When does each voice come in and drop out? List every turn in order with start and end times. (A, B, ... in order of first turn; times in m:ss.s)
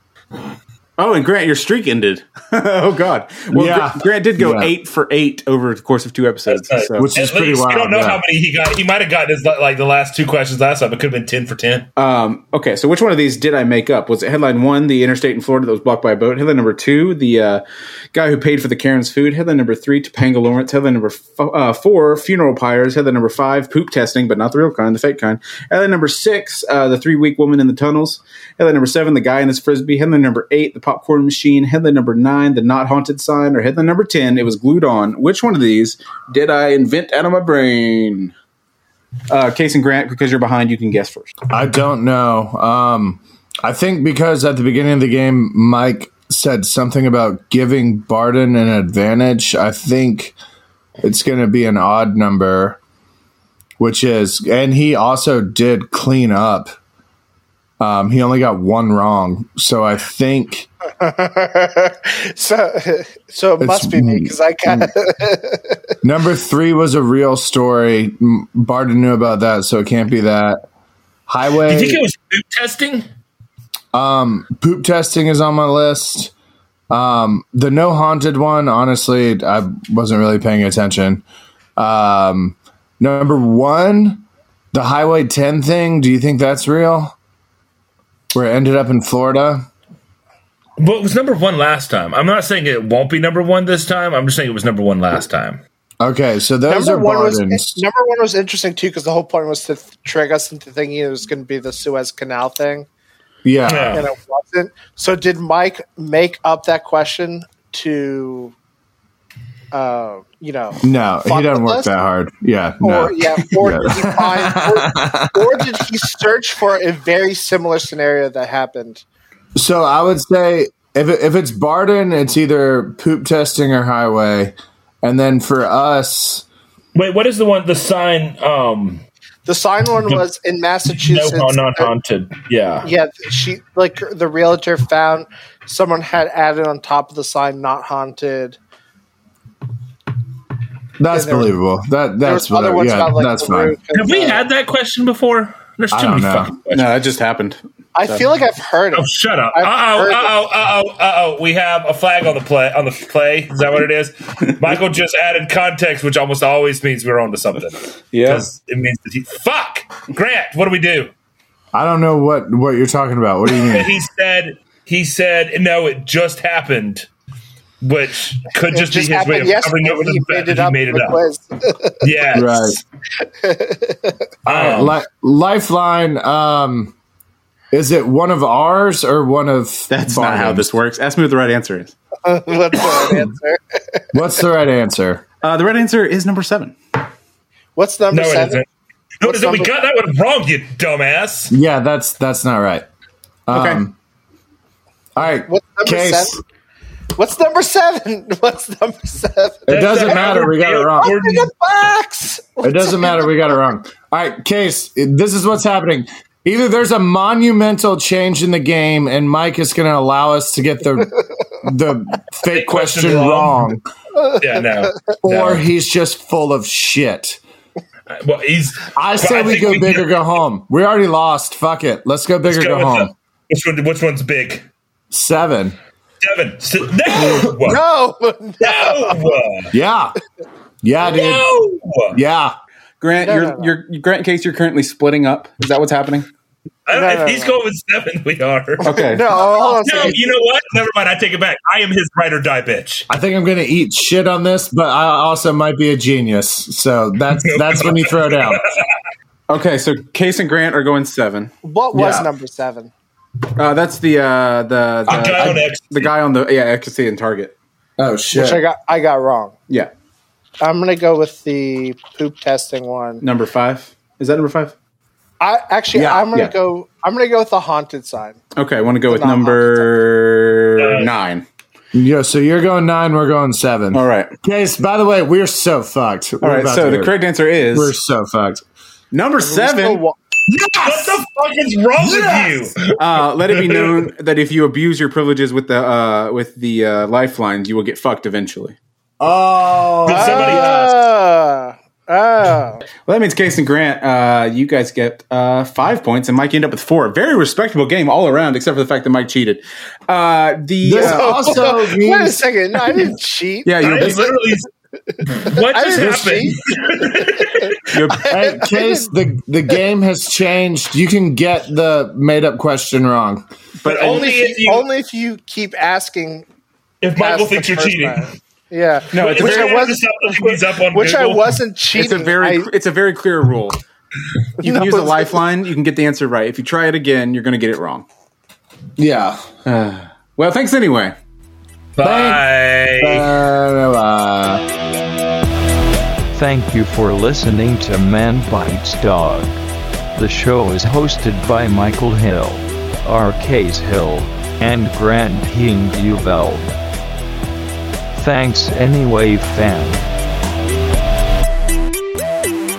0:01.0-0:07.1 A
0:03.5-0:04.7 B
0:06.5-0:11.9 C
0:07.0-0:08.2 B
0:12.0-0:38.3 A
0:39.3-0:41.3 A
0:41.5-0:50.4 B
0:51.0-0:52.8 B
0:53.8-0:56.7 B
0:57.8-1:00.7 B
1:01.0-1:05.8 D
1:03.6-1:04.9 B
1:06.0-1:10.6 B
1:11.3-1:12.0 B
1:11.7-1:13.1 C
1:13.9-1:16.3 B
1:16.9-1:21.2 B
1:21.8-1:27.2 B
1:28.3-1:29.7 B
1:30.8-1:35.6 C
1:36.0-1:37.8 B
1:36.7-1:42.9 D
1:43.4-1:44.0 B
1:43.7-1:44.1 C
1:43.9-1:48.6 D
1:49.7-1:51.9 D
1:50.8-1:55.9 B
1:52.8-1:59.0 D
1:59.6-2:06.4 B
2:07.0-2:09.0 C
2:09.5-2:11.9 D
2:10.9-2:12.9 C
2:12.8-2:18.6 D
2:21.0-2:23.8 B
2:21.1-2:21.5 D
2:22.2-2:24.5 D
2:23.9-2:27.0 C
2:25.9-2:26.5 B
2:26.7-2:28.2 A
2:28.0-2:30.3 D
2:28.9-2:41.1 C
2:38.1-2:38.5 A
2:41.7-2:43.9 B
2:43.6-2:47.1 C
2:47.8-2:51.2 C
2:48.7-2:52.1 D
2:52.0-2:52.8 C
2:52.3-2:52.8 B
2:53.3-2:54.2 D
2:54.5-2:55.0 C
2:54.5-2:56.9 B
2:57.7-3:00.8 B
2:59.9-3:02.0 A
3:02.2-3:04.0 D
3:02.9-3:03.2 B
3:04.1-3:05.2 B
3:05.4-3:06.8 A
3:07.8-3:08.6 D
3:08.1-3:08.7 C
3:09.2-3:11.5 C
3:09.2-3:09.7 D
3:11.5-3:12.9 B
3:13.5-3:14.0 B
3:13.5-3:13.8 A
3:15.2-3:16.4 B
3:15.2-3:16.4 D
3:17.2-3:23.6 D
3:19.7-3:21.2 B
3:19.7-3:21.5 C
3:22.6-3:33.8 B
3:32.5-3:33.7 C
3:34.2-3:34.9 D
3:34.4-3:35.6 C
3:35.2-3:37.4 B
3:38.1-3:40.1 C
3:39.0-3:43.1 B
3:42.5-3:44.6 C
3:45.1-3:45.8 B
3:46.2-3:47.8 C
3:47.1-3:49.4 D
3:48.6-3:49.7 C
3:49.7-3:50.2 B
3:50.8-3:51.5 B
3:51.0-3:52.2 C
3:52.1-3:52.6 B
3:53.0-3:56.3 A
3:53.2-3:53.7 D
3:56.9-4:03.1 C
3:56.9-3:57.6 D
3:58.8-3:59.3 A
3:58.9-4:00.4 D
4:03.1-4:08.6 B
4:07.4-4:08.6 C
4:09.5-4:11.5 A
4:11.6-4:12.9 D
4:11.9-4:12.3 B
4:13.6-4:17.6 A
4:15.1-4:16.1 C
4:18.0-4:18.6 B
4:18.3-4:19.6 D
4:20.6-4:23.2 D
4:23.2-4:24.8 A
4:25.4-4:28.4 D
4:25.9-4:26.3 B
4:28.6-4:31.4 A
4:29.1-4:29.9 D
4:30.8-4:31.1 C
4:31.9-4:38.6 B
4:33.9-4:34.4 A
4:36.4-4:38.0 A
4:39.1-4:40.0 A
4:39.4-4:40.2 D
4:40.5-4:41.2 B
4:40.8-4:44.1 C
4:42.0-4:42.6 B
4:43.0-4:48.8 A
4:49.2-4:50.8 B
4:49.9-4:52.8 D
4:50.1-4:51.0 C
4:53.1-5:01.5 A
5:00.8-5:02.5 B
5:01.0-5:04.3 D
5:03.6-5:04.4 A
5:03.8-5:04.7 C
5:05.3-5:07.8 C
5:05.4-5:09.1 D
5:05.9-5:06.4 B
5:07.9-5:08.3 A
5:08.3-5:13.4 B
5:13.8-5:14.3 A
5:13.8-5:14.8 C
5:13.9-5:16.4 D
5:17.0-5:18.3 C
5:17.2-5:22.7 D
5:19.1-5:19.9 A
5:19.1-5:21.6 C
5:21.9-5:23.8 A
5:24.6-5:25.4 D
5:24.6-5:28.1 A
5:29.0-5:29.4 B
5:29.6-5:31.2 A
5:32.0-5:33.3 C
5:32.0-5:34.6 B
5:36.3-5:39.6 E
5:40.2-5:46.8 E
5:48.1-5:50.0 E